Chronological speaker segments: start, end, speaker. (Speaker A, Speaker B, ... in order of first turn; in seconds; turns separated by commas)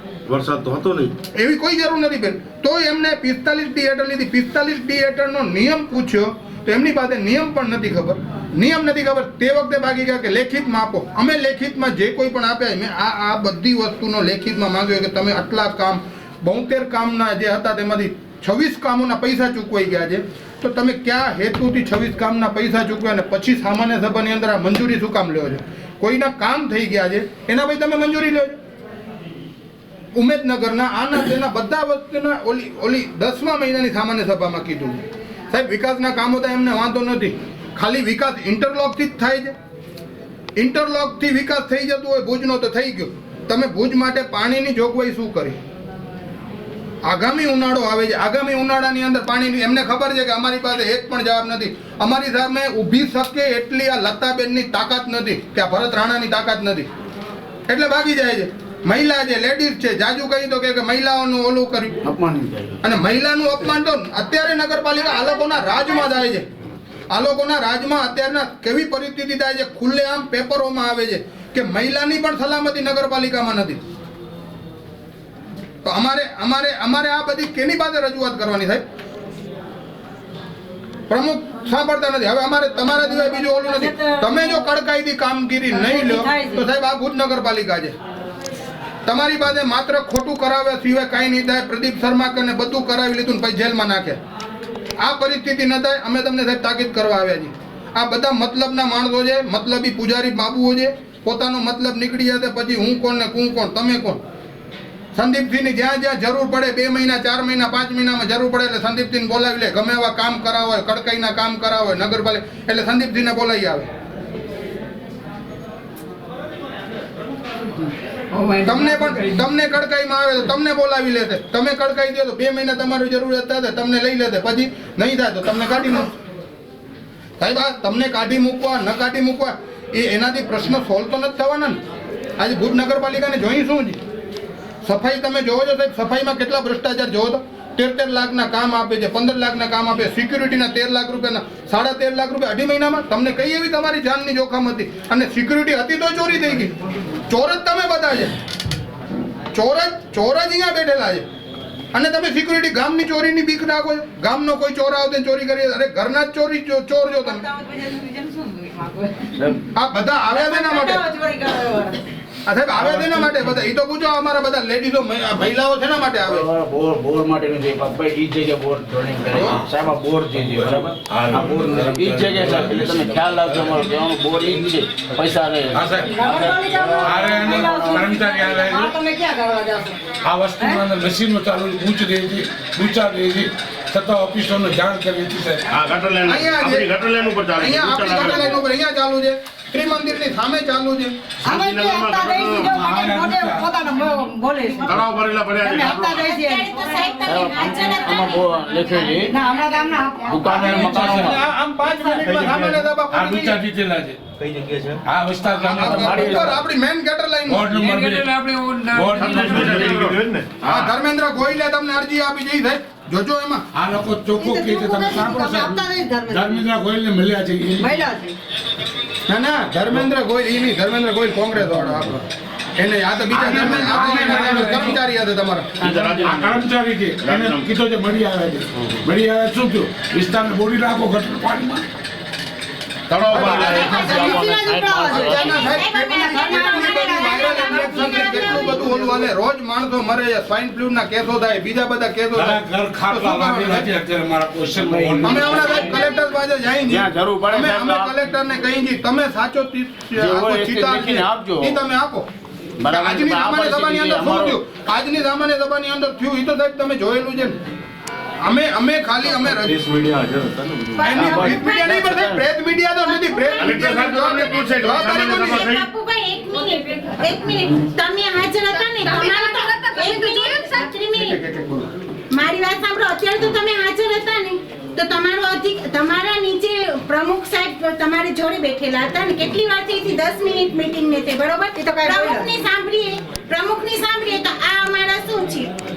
Speaker A: 0.3-1.1, Speaker B: 1.3-28.6, Speaker B: 30.1-39.5, Speaker B: 40.6-45.6, Speaker B: 47.0-56.9, Speaker B: 57.7-62.0, Speaker C: 62.0-62.8, Speaker B: 62.8-66.5, Speaker B: 67.1-73.8, Speaker B: 75.8-78.8, Speaker B: 81.1-88.0, Speaker D: 83.6-84.6, Speaker D: 85.7-86.6, Speaker B: 89.1-94.2, Speaker B: 95.0-104.2, Speaker B: 105.2-113.9, Speaker B: 118.6-126.2, Speaker B: 127.4-131.8, Speaker B: 132.4-134.0, Speaker B: 134.8-146.7, Speaker B: 147.3-148.4, Speaker B: 149.5-151.2, Speaker B: 151.9-157.5, Speaker D: 157.3-159.4, Speaker C: 159.3-159.6, Speaker B: 159.8-161.1, Speaker D: 160.3-162.0, Speaker B: 162.5-166.4, Speaker C: 162.8-163.3, Speaker C: 166.2-177.1, Speaker E: 169.4-169.7, Speaker E: 170.8-173.9, Speaker E: 175.7-176.2, Speaker D: 176.0-180.8, Speaker E: 177.0-179.0, Speaker E: 180.2-185.7, Speaker A: 185.7-188.6, Speaker B: 186.2-186.9, Speaker B: 187.6-191.2, Speaker D: 191.4-195.1, Speaker A: 191.5-192.8, Speaker E: 192.8-193.7, Speaker A: 194.8-196.2, Speaker D: 195.6-197.0, Speaker F: 196.1-198.5, Speaker C: 197.2-199.4, Speaker D: 199.2-200.9, Speaker C: 200.3-201.4, Speaker E: 200.5-201.2, Speaker B: 200.7-203.6, Speaker D: 202.0-202.3, Speaker A: 202.3-202.9, Speaker E: 203.1-204.2, Speaker C: 204.4-205.0, Speaker E: 205.1-206.4, Speaker B: 205.6-207.7, Speaker C: 205.8-206.6, Speaker E: 207.5-210.1, Speaker A: 209.2-210.9, Speaker B: 210.6-213.6, Speaker E: 213.7-217.9, Speaker D: 214.4-216.7, Speaker D: 217.8-218.4, Speaker B: 219.3-222.2, Speaker B: 222.8-225.7, Speaker E: 223.3-225.0, Speaker A: 225.8-226.7, Speaker E: 225.8-231.8, Speaker A: 227.2-227.7, Speaker A: 233.1-234.2, Speaker C: 233.3-235.7, Speaker B: 233.3-234.1, Speaker D: 233.6-239.0, Speaker F: 233.9-234.3, Speaker B: 235.1-243.9, Speaker F: 235.6-238.9, Speaker E: 242.3-245.9, Speaker C: 244.8-245.7, Speaker B: 245.2-252.3, Speaker F: 245.3-246.2, Speaker C: 246.9-248.2, Speaker C: 250.2-251.8, Speaker C: 252.8-254.6, Speaker B: 252.9-257.6, Speaker B: 258.4-259.8, Speaker A: 259.4-261.4, Speaker F: 261.0-262.0, Speaker B: 261.0-265.6, Speaker C: 261.1-262.4, Speaker F: 263.0-271.4, Speaker A: 263.6-265.9, Speaker D: 268.8-270.9, Speaker B: 271.1-271.9, Speaker F: 272.3-285.7, Speaker D: 281.8-282.5